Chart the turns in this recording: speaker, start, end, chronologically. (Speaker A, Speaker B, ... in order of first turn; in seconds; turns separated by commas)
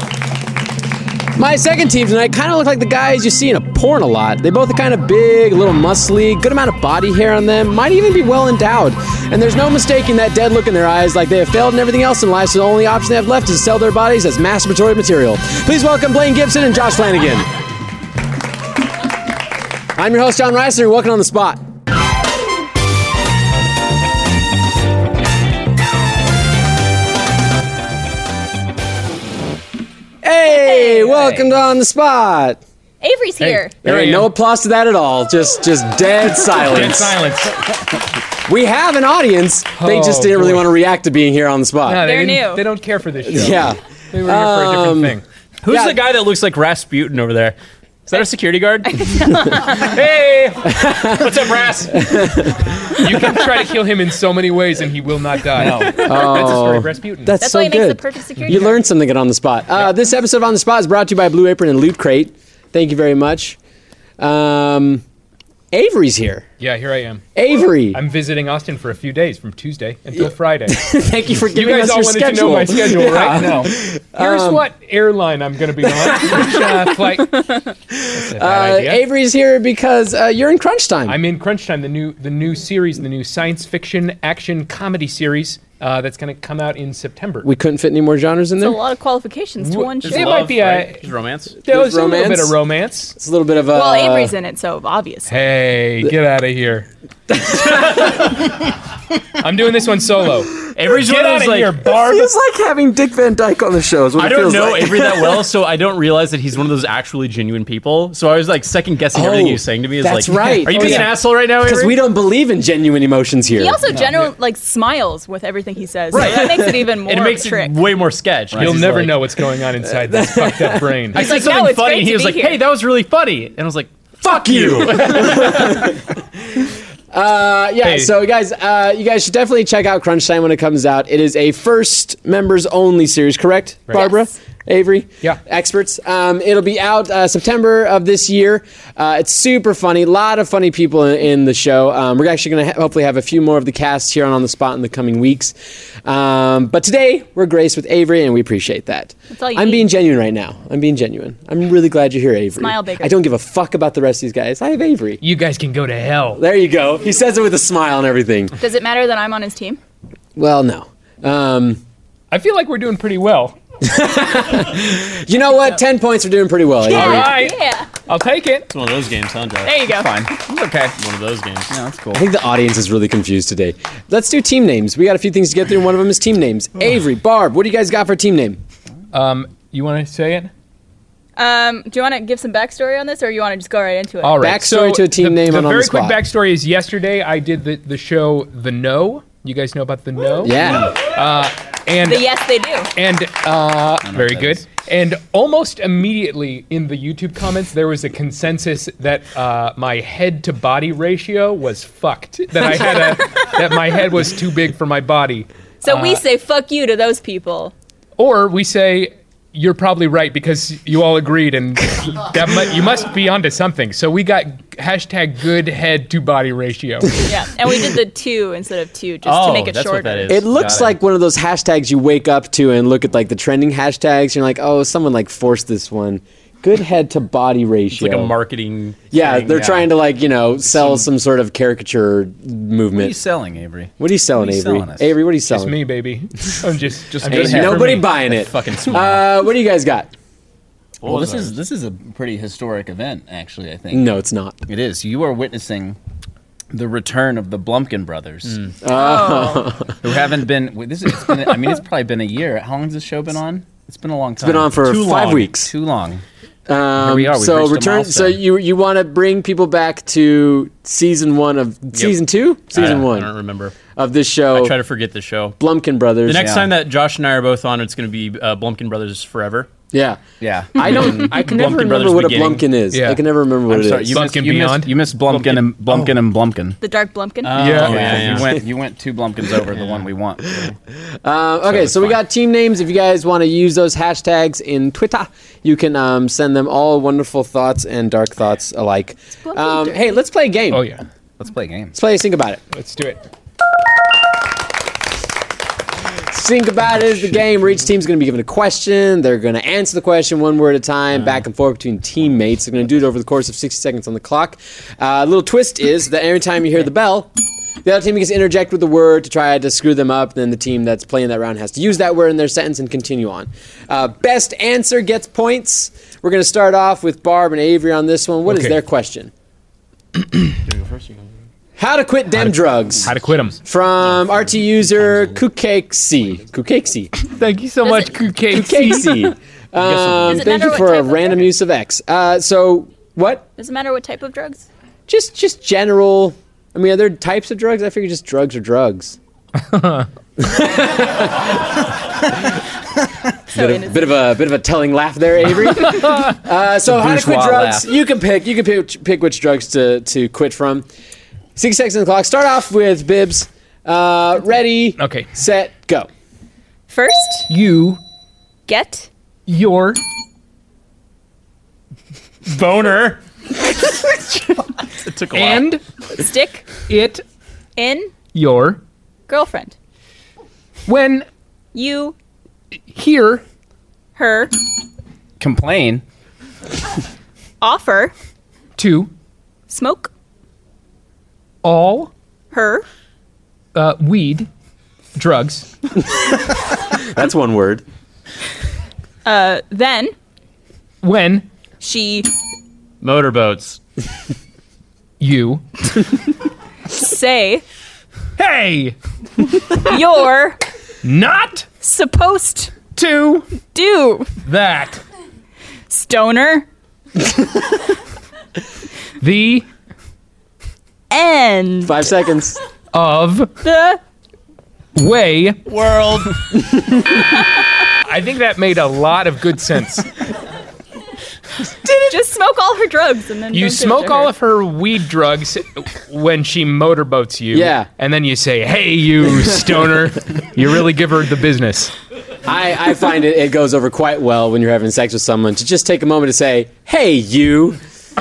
Speaker A: 1.3-17.5, Speaker A: 19.9-21.6, Speaker A: 30.2-32.6, Speaker B: 30.4-31.2, Speaker C: 31.1-31.5, Speaker B: 33.0-33.7, Speaker D: 33.4-34.3, Speaker A: 33.8-37.2, Speaker E: 36.5-37.6, Speaker A: 38.5-42.1, Speaker E: 39.8-40.7, Speaker E: 41.8-45.2, Speaker B: 42.0-42.6, Speaker A: 43.3-46.0, Speaker D: 45.6-49.4, Speaker B: 48.9-49.8, Speaker E: 49.5-52.0, Speaker A: 50.6-51.3, Speaker D: 51.2-51.9, Speaker A: 51.9-53.1, Speaker E: 52.9-57.3, Speaker C: 55.5-56.0, Speaker A: 56.0-63.6, Speaker B: 57.4-58.7, Speaker A: 64.2-65.0, Speaker A: 65.7-66.5, Speaker E: 66.6-67.2, Speaker A: 67.3-68.0, Speaker E: 67.9-70.8, Speaker A: 70.7-74.7, Speaker E: 71.5-77.5, Speaker A: 75.9-76.6, Speaker A: 77.9-81.2, Speaker E: 78.1-79.0, Speaker E: 81.1-87.5, Speaker A: 87.4-88.8, Speaker B: 88.6-90.5, Speaker E: 89.6-91.0, Speaker D: 90.0-91.5, Speaker E: 91.6-93.2, Speaker A: 91.7-92.6, Speaker A: 93.2-94.3, Speaker B: 93.7-95.3, Speaker E: 95.3-96.9, Speaker A: 97.3-98.3, Speaker E: 99.4-102.3, Speaker D: 100.7-101.8, Speaker A: 101.8-105.5, Speaker D: 104.2-112.0, Speaker A: 109.1-113.8, Speaker E: 110.7-111.1, Speaker B: 113.5-117.8, Speaker C: 113.9-114.3, Speaker D: 116.1-119.3, Speaker A: 116.1-116.7, Speaker C: 118.5-118.8, Speaker E: 118.5-121.4, Speaker A: 120.0-121.0, Speaker D: 121.1-123.9, Speaker B: 121.1-122.6, Speaker A: 124.2-126.0, Speaker D: 124.4-125.8, Speaker A: 127.1-155.2, Speaker E: 127.8-128.1, Speaker B: 133.9-134.3, Speaker B: 149.3-149.8, Speaker B: 152.6-153.1, Speaker E: 155.2-156.4, Speaker A: 156.4-158.5, Speaker B: 158.6-159.8, Speaker A: 160.3-161.8, Speaker E: 162.3-163.6, Speaker A: 163.8-167.4, Speaker E: 166.9-168.7, Speaker B: 166.9-167.9, Speaker D: 168.7-169.7, Speaker B: 169.6-170.2, Speaker C: 169.9-170.9, Speaker D: 171.0-171.7, Speaker C: 171.7-172.2, Speaker A: 172.1-178.6, Speaker E: 179.1-180.5, Speaker B: 181.3-184.4, Speaker E: 184.2-192.3, Speaker A: 184.4-186.2, Speaker A: 190.4-191.0, Speaker B: 192.0-192.9, Speaker E: 192.9-206.2, Speaker C: 194.0-194.6, Speaker B: 205.8-207.7, Speaker E: 208.2-217.3, Speaker B: 217.2-220.4, Speaker D: 219.2-220.5, Speaker A: 220.3-228.3, Speaker C: 220.5-221.0, Speaker D: 227.9-229.7, Speaker A: 229.1-233.2, Speaker C: 229.5-229.9, Speaker D: 230.8-231.0, Speaker C: 232.9-235.1, Speaker A: 234.0-235.8, Speaker E: 235.5-238.0, Speaker C: 237.1-237.9, Speaker A: 237.3-240.1, Speaker D: 237.4-239.2, Speaker D: 241.0-241.6, Speaker C: 241.0-244.1, Speaker A: 243.9-244.5, Speaker C: 244.7-246.0, Speaker C: 246.7-248.6, Speaker A: 248.8-249.9, Speaker B: 248.9-249.7, Speaker C: 250.0-256.2, Speaker A: 254.4-255.7, Speaker D: 254.8-255.5, Speaker A: 256.7-263.3, Speaker C: 256.9-258.4, Speaker D: 262.7-263.7, Speaker C: 262.7-263.0, Speaker A: 263.9-264.8, Speaker D: 264.5-265.6, Speaker A: 265.6-266.6, Speaker D: 266.2-269.7, Speaker C: 266.3-266.7, Speaker A: 269.9-270.2, Speaker C: 270.4-271.2, Speaker A: 270.7-274.2, Speaker D: 270.8-272.7, Speaker E: 272.9-273.2, Speaker C: 273.7-276.8, Speaker E: 274.1-275.6, Speaker B: 276.8-277.6, Speaker D: 277.4-278.6, Speaker E: 277.5-278.4, Speaker C: 277.6-280.7, Speaker A: 281.2-290.9, Speaker C: 281.6-282.2, Speaker B: 289.5-290.0, Speaker E: 290.7-291.0, Speaker C: 291.4-291.9, Speaker A: 291.9-292.6, Speaker E: 292.7-293.2, Speaker A: 296.3-307.3, Speaker A: 307.8-319.3, Speaker E: 318.5-318.8, Speaker D: 320.6-321.2, Speaker A: 321.8-327.1, Speaker E: 323.0-323.6, Speaker E: 327.2-329.3, Speaker B: 327.8-328.1, Speaker A: 328.5-333.4, Speaker D: 329.8-330.8, Speaker B: 330.2-331.5, Speaker B: 333.6-334.6, Speaker A: 335.1-339.2, Speaker E: 339.7-340.1, Speaker A: 340.4-341.8, Speaker A: 343.5-350.9, Speaker B: 343.5-344.1, Speaker C: 346.9-347.9, Speaker A: 351.6-356.1, Speaker E: 355.0-355.3, Speaker B: 356.9-357.5, Speaker E: 357.5-358.0, Speaker B: 358.7-359.1, Speaker E: 359.5-360.0, Speaker D: 362.4-363.2, Speaker D: 365.0-365.7, Speaker E: 365.3-365.8, Speaker B: 366.1-366.8, Speaker E: 366.8-367.2, Speaker B: 367.8-368.1, Speaker E: 368.3-368.8, Speaker B: 369.3-369.8, Speaker E: 370.9-371.2, Speaker B: 371.7-372.1, Speaker E: 372.9-373.4, Speaker B: 374.1-374.5, Speaker C: 375.4-376.0, Speaker B: 377.6-378.1, Speaker E: 378.8-379.1, Speaker B: 379.7-380.1, Speaker E: 381.6-382.1, Speaker B: 382.5-382.8, Speaker E: 383.7-384.5, Speaker E: 385.1-385.7, Speaker A: 386.9-387.8, Speaker B: 389.2-390.1, Speaker E: 391.0-391.4, Speaker B: 391.8-392.3, Speaker D: 393.0-393.8, Speaker E: 395.2-396.0, Speaker B: 396.9-397.6, Speaker E: 398.4-398.9, Speaker B: 399.7-400.6, Speaker E: 401.0-401.7, Speaker B: 401.8-402.8, Speaker E: 402.9-403.5, Speaker B: 403.7-404.3, Speaker E: 404.4-405.0, Speaker B: 405.9-406.6, Speaker E: 409.2-409.6, Speaker B: 411.1-412.0, Speaker A: 411.8-412.6, Speaker E: 412.9-413.5, Speaker B: 413.6-414.0, Speaker E: 414.9-415.6, Speaker D: 415.6-416.4, Speaker E: 418.0-420.1, Speaker B: 422.1-424.3, Speaker E: 423.5-431.9, Speaker A: 427.5-427.9, Speaker A: 432.4-437.8